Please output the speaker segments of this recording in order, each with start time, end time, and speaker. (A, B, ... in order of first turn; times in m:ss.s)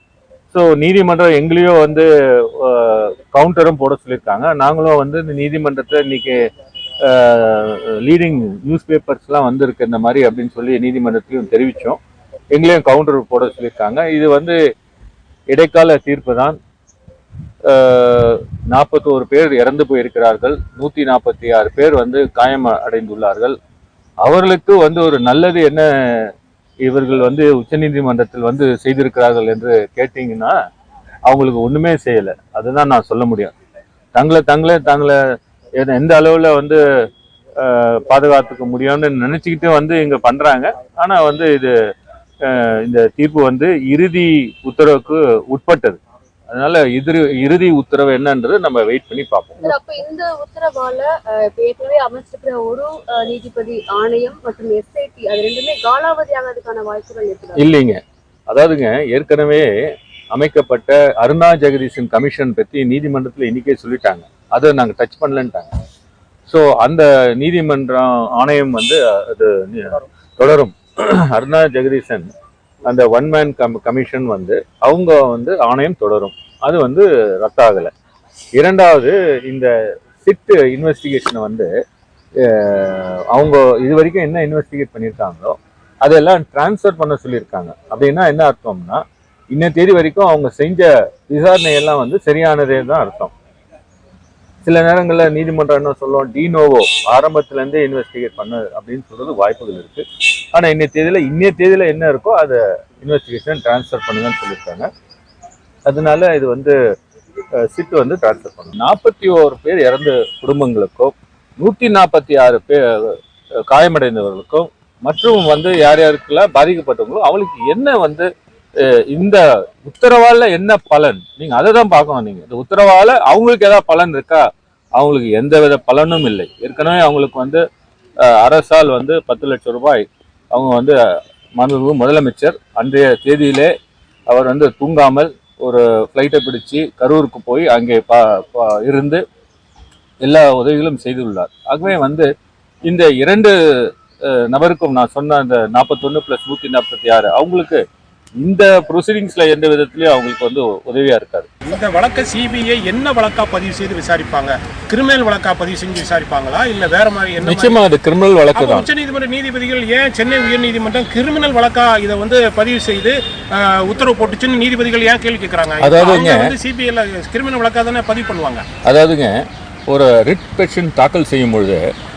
0:00.5-0:06.4 A
0:07.0-0:12.0 A
0:12.5-0:14.6 A
0:15.5-0:16.6 A
0:17.7-0:23.6 A
0:24.2-0:26.3 A
0:26.8-0:30.6 A
0:31.3-0:33.5 A
0:34.2-0:35.2 A
0:35.8-0:36.8 A
0:37.6-0:41.7 A
0:42.5-0:46.0 A
0:46.5-0:49.7 A
0:49.6-0:57.7 B
0:57.6-0:59.7 A
1:00.3-1:05.7 A
1:06.5-1:12.3 A
1:12.9-1:17.9 A
1:18.6-1:19.7 A
1:20.2-1:21.7 A
1:22.4-1:29.0 A
1:29.5-1:33.3 A
1:34.6-1:44.9 A
1:45.9-1:46.8 A
1:47.7-1:53.2 A
1:53.7-1:58.3 A
1:59.1-2:04.4 A
2:05.0-2:07.6 A
2:08.2-2:11.0 A
2:11.6-2:13.7 A
2:14.3-2:19.2 A
2:20.2-2:22.3 A
2:22.9-2:23.5 A
2:24.3-2:27.8 A
2:28.4-2:31.5 A
2:31.7-2:37.8 C
2:37.4-2:38.9 A
2:38.6-2:48.6 C
2:45.8-2:46.5 A
2:48.9-2:49.4 A
2:49.9-2:51.8 A